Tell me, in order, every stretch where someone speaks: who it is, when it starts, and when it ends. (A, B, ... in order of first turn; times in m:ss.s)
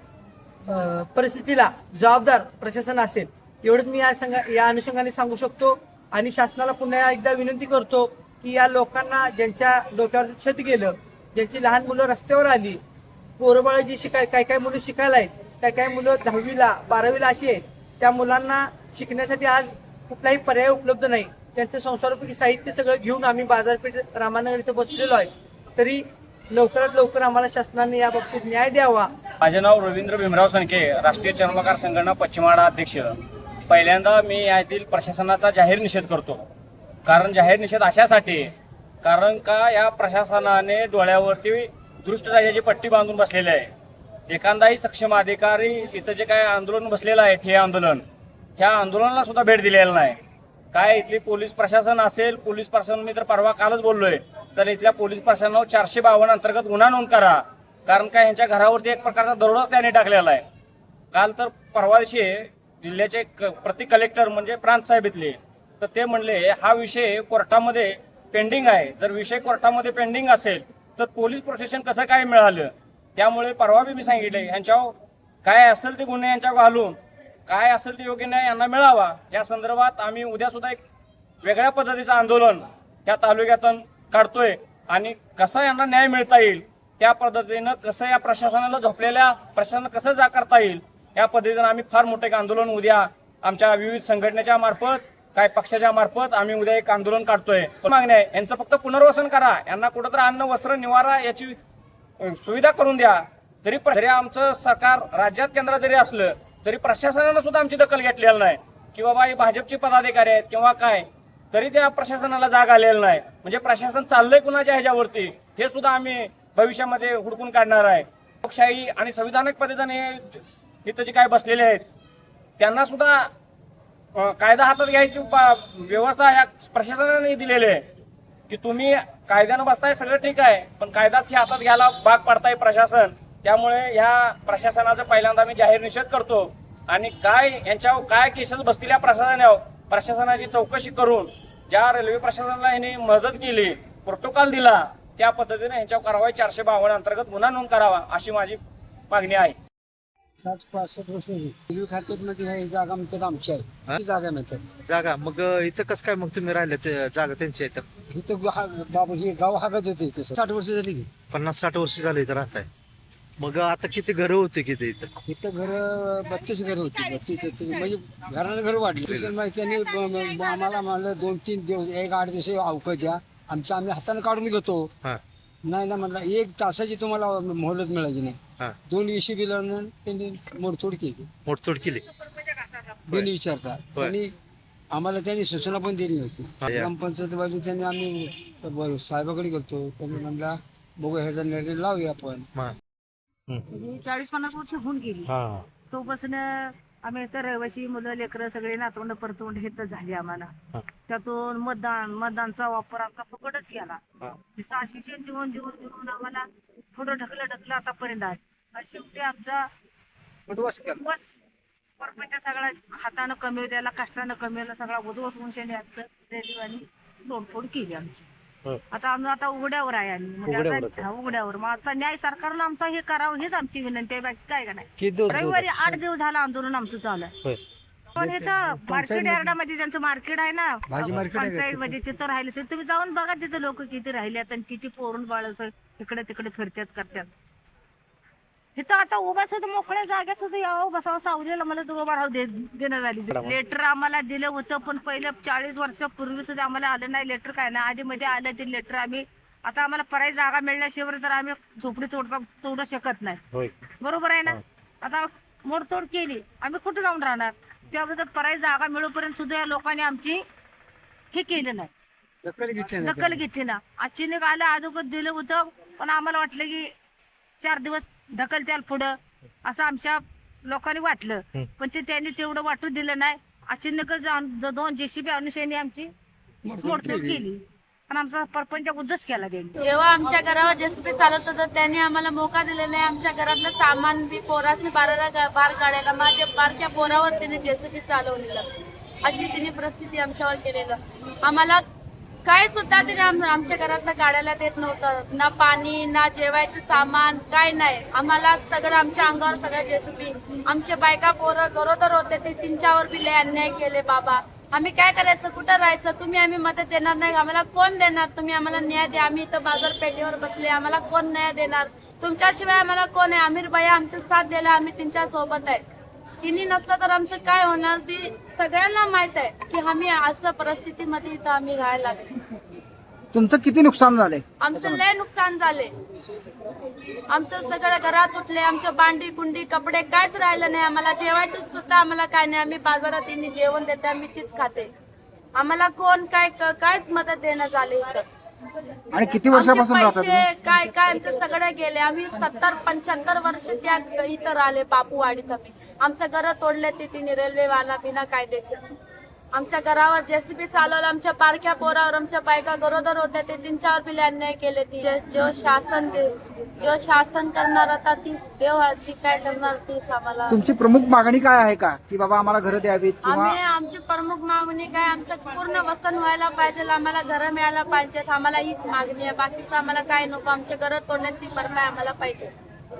0:00.7-0:12.8 A
0:13.4-0:29.1 A
0:29.4-0:33.2 B
0:33.7-0:36.4 B
0:37.0-0:38.5 B
0:39.0-0:43.7 B
0:44.3-0:48.0 B
0:48.6-0:50.2 B
0:50.7-1:00.4 B
1:01.1-1:17.0 B
1:17.5-1:20.8 B
1:21.4-1:41.6 B
1:42.2-2:01.8 B
2:02.6-2:03.3 B
2:04.2-2:07.8 B
2:08.5-2:28.6 B
2:29.1-2:29.6 B
2:30.4-2:34.7 C
2:34.8-2:37.8 D
2:38.1-2:41.1 C
2:41.3-2:42.7 D
2:43.4-2:45.1 D
2:45.2-2:54.9 C
2:55.6-3:01.3 C
3:01.5-3:02.0 D
3:03.1-3:04.3 C
3:04.9-3:12.5 C
3:06.6-3:06.9 D
3:13.7-3:29.7 E
3:15.3-3:15.6 D
3:30.5-3:31.0 C
3:30.9-3:31.4 E
3:32.0-3:38.2 E
3:38.9-3:47.4 E
3:40.6-3:41.0 D
3:45.0-3:45.3 D
3:48.1-3:57.3 E
3:48.2-3:49.6 C
3:50.8-3:52.0 C
3:58.8-4:13.4 E
4:14.0-4:20.4 E
4:21.3-4:21.9 E
4:22.4-4:23.5 C
4:23.0-4:26.9 E
4:27.6-4:36.1 E
4:36.6-4:37.4 C
4:36.8-4:39.7 E
4:39.8-4:48.6 F
4:49.2-4:51.8 F
4:52.4-5:15.8 F
5:16.4-5:22.3 F
5:23.3-5:25.0 G
5:24.6-5:25.9 F
5:27.3-5:34.9 F
5:35.5-5:38.2 F
5:39.1-5:40.5 G
5:39.5-5:48.8 F
5:49.5-6:00.6 F
6:00.5-6:03.6 G
6:03.2-6:12.5 F